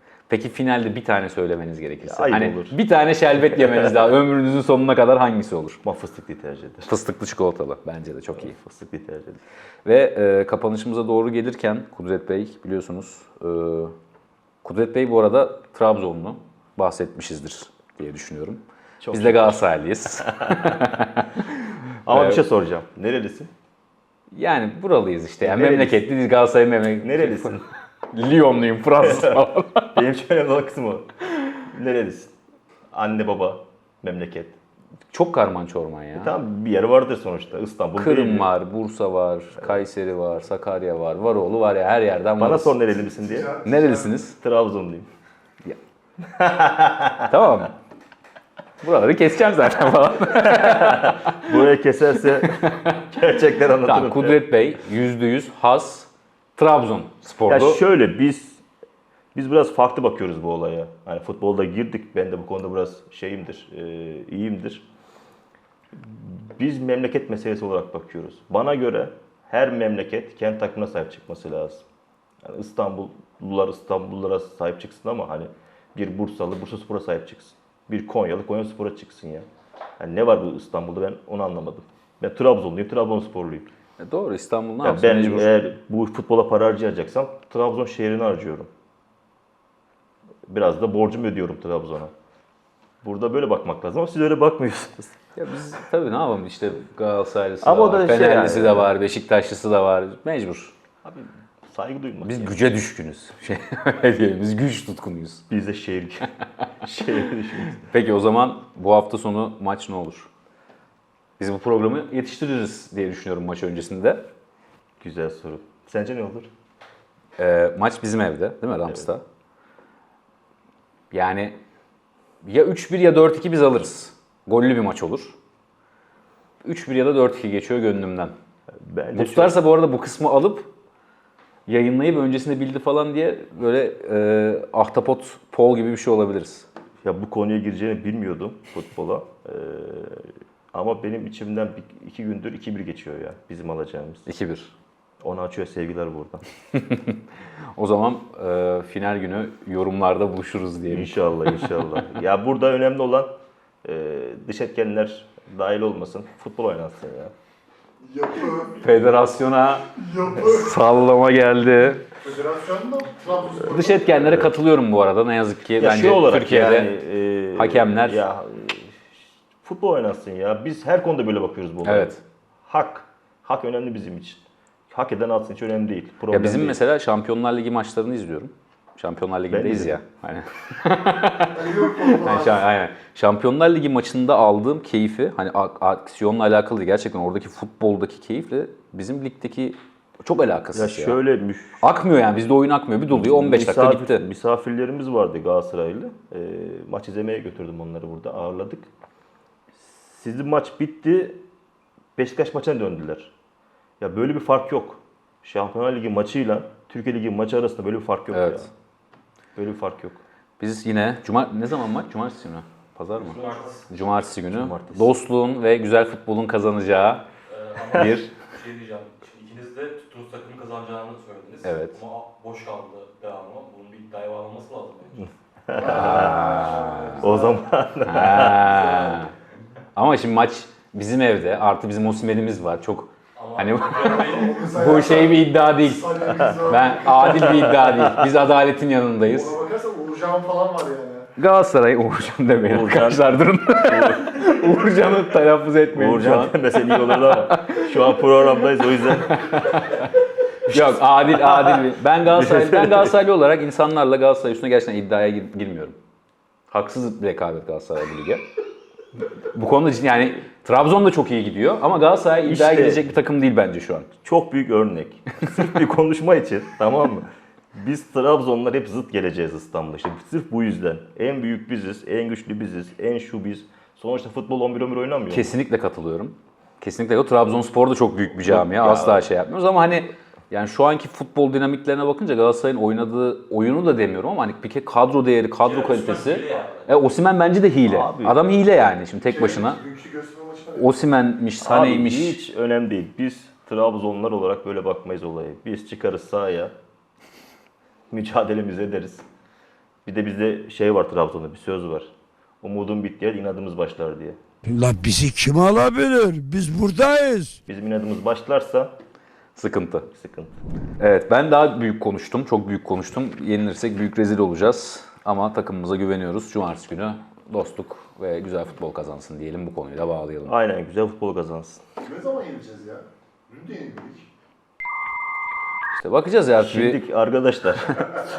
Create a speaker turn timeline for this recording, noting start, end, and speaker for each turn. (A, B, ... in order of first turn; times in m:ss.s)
0:00.3-0:05.8 A
0:02.0-0:02.8 B
0:05.8-0:06.9 B
0:06.8-0:08.5 A
0:08.3-0:09.4 B
0:09.8-0:13.9 A
0:14.6-0:21.4 A
0:19.0-0:19.6 B
0:20.2-0:20.7 B
0:22.0-0:23.5 B
0:22.1-0:22.4 A
0:24.3-0:29.9 A
0:25.4-0:26.0 B
0:27.0-0:27.6 B
0:29.0-0:29.4 B
0:29.9-0:32.3 B
0:32.9-0:34.6 B
0:35.1-0:36.3 A
0:36.2-0:38.5 B
0:38.0-0:42.8 A
0:42.4-0:43.6 B
0:43.4-0:44.1 C
0:43.6-0:44.4 A
0:44.4-0:45.1 B
0:46.2-0:47.3 B
0:47.3-0:47.7 A
0:48.8-0:51.6 A
0:50.4-0:54.4 B
0:52.5-0:53.0 A
0:53.8-0:57.8 A
0:57.5-0:58.6 B
0:59.3-1:04.8 B
1:05.9-1:11.8 B
1:12.4-1:19.4 B
1:20.0-1:23.7 B
1:24.0-1:25.5 A
1:24.8-1:28.7 B
1:30.5-1:32.1 B
1:33.0-1:35.2 B
1:35.3-1:40.7 A
1:37.6-1:38.9 B
1:41.0-1:42.6 B
1:42.2-1:45.4 A
1:45.5-1:46.3 B
1:46.8-1:47.8 B
1:47.8-1:50.3 A
1:51.4-1:54.3 A
1:55.0-1:56.5 B
1:57.4-1:59.2 A
2:01.1-2:01.6 A
2:02.4-2:05.4 A
2:06.6-2:08.3 A
2:08.8-2:09.6 B
2:09.1-2:10.7 A
2:11.7-2:16.7 A
2:17.0-2:24.3 B
2:24.2-2:24.7 A
2:25.2-2:26.4 B
2:26.8-2:27.2 A
2:27.8-2:31.6 A
2:30.9-2:37.3 B
2:38.0-2:39.1 C
2:38.8-2:42.0 A
2:39.9-2:40.8 C
2:42.2-2:44.3 C
2:43.6-2:46.9 A
2:45.8-2:56.8 B
2:47.5-2:48.2 A
2:51.8-2:52.2 A
2:56.3-3:11.2 A
2:59.5-3:00.0 B
3:01.5-3:02.6 C
3:10.7-3:11.8 B
3:11.8-3:14.2 A
3:13.1-3:18.9 B
3:19.7-3:21.4 B
3:22.2-3:23.3 B
3:24.0-3:28.7 B
3:28.3-3:28.6 A
3:29.6-3:30.2 B
3:30.6-3:37.2 A
3:33.3-3:33.8 D
3:34.5-3:35.1 B
3:37.5-3:45.2 D
3:37.9-3:38.3 A
3:41.6-3:42.0 A
3:45.7-3:46.6 B
3:45.7-3:47.6 C
3:45.8-3:47.3 A
3:47.2-3:49.2 B
3:48.0-3:49.3 A
3:50.0-3:59.6 A
3:53.4-3:54.6 D
3:53.9-3:57.7 C
3:57.1-3:58.3 B
3:59.3-4:01.3 C
4:01.4-4:07.9 A
4:02.6-4:04.8 B
4:05.9-4:09.6 B
4:09.2-4:10.1 A
4:10.7-4:16.0 A
4:10.7-4:13.2 B
4:16.7-4:18.4 A
4:19.5-4:24.1 A
4:22.4-4:23.0 B
4:24.2-4:35.5 B
4:35.3-4:49.8 A
4:38.4-4:39.3 B
4:45.7-4:46.8 D
4:47.8-4:48.4 B
4:49.3-4:50.9 C
4:50.7-4:52.4 A
4:51.6-4:56.7 B
4:58.1-4:59.2 B
5:00.0-5:02.1 B
5:02.6-5:04.4 B
5:04.6-5:07.6 E
5:07.7-5:08.9 B
5:09.6-5:10.1 A
5:10.0-5:10.5 B
5:11.0-5:20.5 A
5:20.4-5:21.8 B
5:22.0-5:24.3 C
5:25.9-5:27.0 A
5:26.6-5:28.2 B